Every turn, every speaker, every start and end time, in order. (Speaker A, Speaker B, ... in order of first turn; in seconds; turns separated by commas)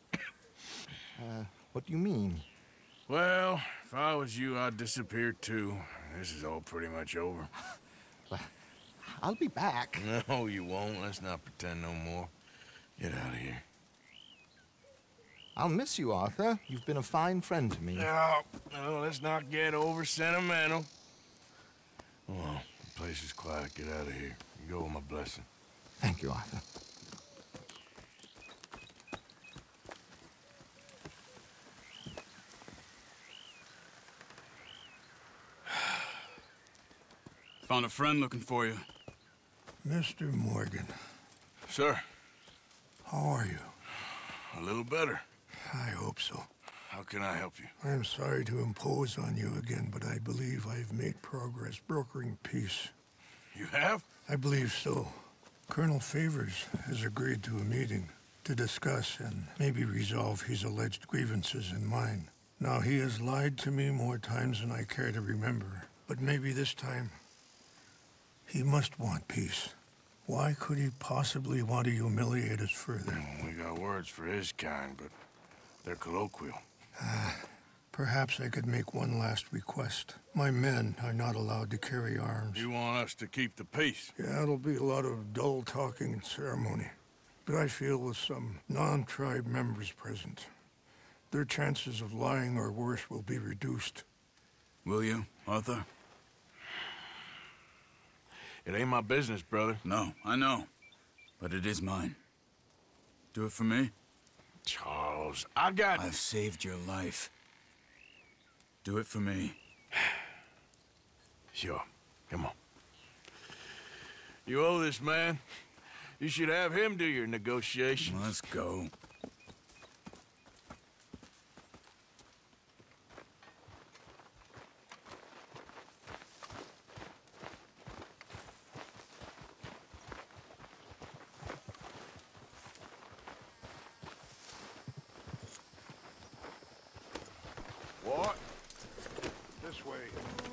Speaker A: 1.2-2.5, Speaker B: 3.1-7.5, Speaker A: 9.1-10.0, Speaker B: 10.0-12.3, Speaker B: 13.0-13.6, Speaker A: 15.6-18.1, Speaker B: 17.9-20.9, Speaker B: 22.3-25.5, Speaker A: 26.0-26.6, Speaker C: 37.6-38.9, Speaker D: 39.8-40.9, Speaker B: 41.7-42.0, Speaker D: 43.0-43.7, Speaker B: 44.5-45.2, Speaker D: 45.6-46.5, Speaker B: 46.9-47.7, Speaker D: 47.8-52.9, Speaker B: 53.5-54.0, Speaker D: 54.3-55.2, Speaker D: 55.7-67.2, Speaker D: 68.5-69.7, Speaker D: 70.2-73.2, Speaker B: 73.1-75.1, Speaker B: 75.8-76.6, Speaker D: 77.0-82.7, Speaker B: 82.5-84.1, Speaker D: 84.2-90.5, Speaker D: 91.3-94.0, Speaker C: 94.8-95.9, Speaker B: 98.6-99.8, Speaker C: 99.8-100.7, Speaker C: 101.4-102.2, Speaker C: 103.3-103.9, Speaker B: 104.7-106.1, Speaker C: 105.9-107.3, Speaker C: 108.8-109.6, Speaker B: 111.5-112.5, Speaker B: 114.5-115.4, Speaker B: 116.2-118.4, Speaker C: 118.0-118.9, Speaker B: 138.0-138.4, Speaker D: 139.6-140.2